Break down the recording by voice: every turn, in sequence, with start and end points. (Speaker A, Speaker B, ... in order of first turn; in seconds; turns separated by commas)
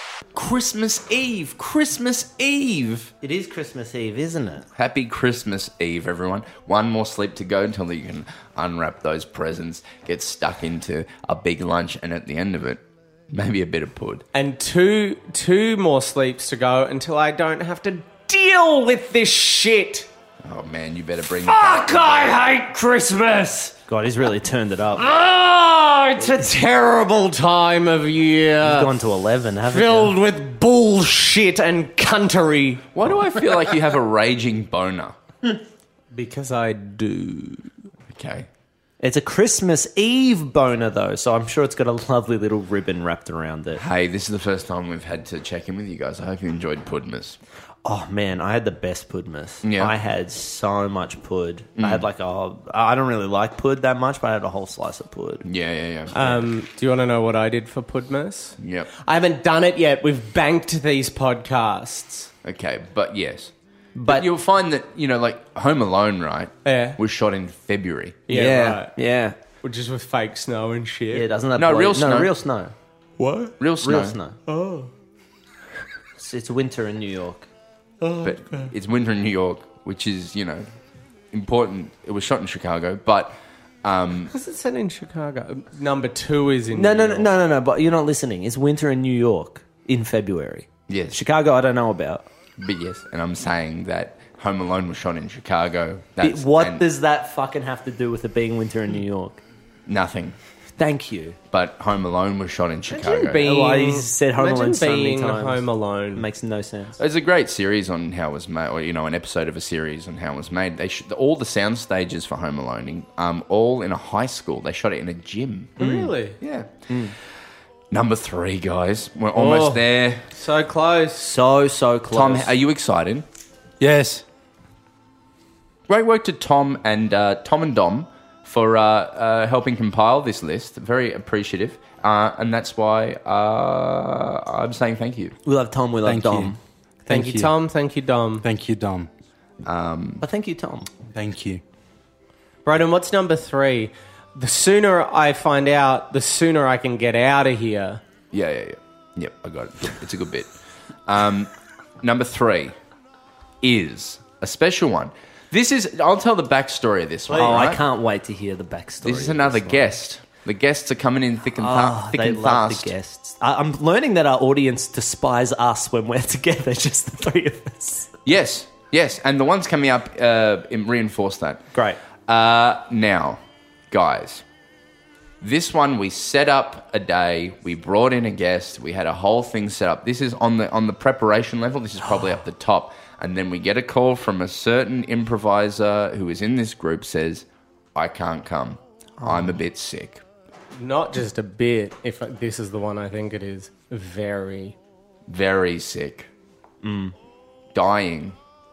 Speaker A: 0.3-3.1, Speaker B: 3.2-4.7, Speaker A: 4.8-14.2, Speaker C: 14.3-20.1, Speaker A: 20.4-22.4, Speaker C: 21.4-23.8, Speaker B: 23.9-25.0, Speaker C: 25.0-28.9, Speaker B: 28.6-30.1, Speaker C: 29.7-32.9, Speaker A: 32.9-35.1, Speaker C: 36.1-37.7, Speaker A: 38.1-38.5, Speaker B: 39.0-43.8, Speaker A: 43.8-47.4, Speaker B: 47.8-55.4, Speaker A: 49.6-49.9, Speaker A: 51.8-52.0, Speaker A: 55.4-56.4, Speaker C: 56.1-62.3, Speaker A: 58.6-58.9, Speaker A: 62.4-63.5, Speaker B: 63.9-64.3, Speaker A: 64.0-68.2, Speaker C: 66.6-67.0, Speaker C: 68.3-68.9, Speaker B: 68.3-69.4, Speaker C: 69.6-71.3, Speaker B: 71.1-72.7, Speaker A: 71.5-72.3, Speaker C: 73.2-73.6, Speaker A: 73.6-74.2, Speaker B: 73.8-74.4, Speaker C: 74.5-74.9, Speaker B: 76.2-77.5, Speaker C: 78.0-78.7, Speaker A: 78.2-80.7, Speaker A: 81.3-84.3, Speaker C: 84.3-87.3, Speaker B: 86.7-92.3, Speaker A: 90.9-91.2, Speaker A: 92.6-96.8, Speaker B: 96.2-99.4, Speaker A: 99.9-100.3, Speaker B: 100.8-101.4, Speaker A: 101.5-103.6, Speaker C: 102.9-106.3, Speaker B: 103.1-107.0, Speaker A: 107.0-116.7, Speaker C: 115.8-116.4, Speaker B: 115.8-116.1, Speaker B: 116.9-117.1, Speaker A: 117.9-120.2, Speaker C: 119.3-121.2, Speaker B: 121.2-122.5, Speaker A: 122.1-123.2, Speaker D: 123.8-124.2, Speaker A: 125.9-135.3, Speaker B: 135.4-136.6, Speaker D: 136.0-136.5, Speaker D: 137.1-137.5, Speaker C: 137.1-138.4, Speaker D: 138.4-139.1, Speaker A: 139.6-140.2, Speaker B: 140.2-140.9, Speaker D: 141.1-141.6, Speaker C: 142.6-148.0, Speaker A: 148.3-150.5, Speaker A: 151.1-151.5, Speaker A: 152.0-152.8, Speaker A: 153.6-157.8, Speaker B: 157.3-159.9, Speaker A: 159.0-162.9, Speaker B: 161.6-168.1, Speaker A: 168.2-171.7, Speaker B: 171.7-172.0, Speaker A: 172.3-173.4, Speaker A: 173.9-174.4, Speaker A: 175.4-190.2, Speaker B: 189.2-189.6, Speaker C: 190.7-194.8, Speaker A: 195.3-196.3, Speaker B: 196.8-197.1, Speaker A: 197.7-198.3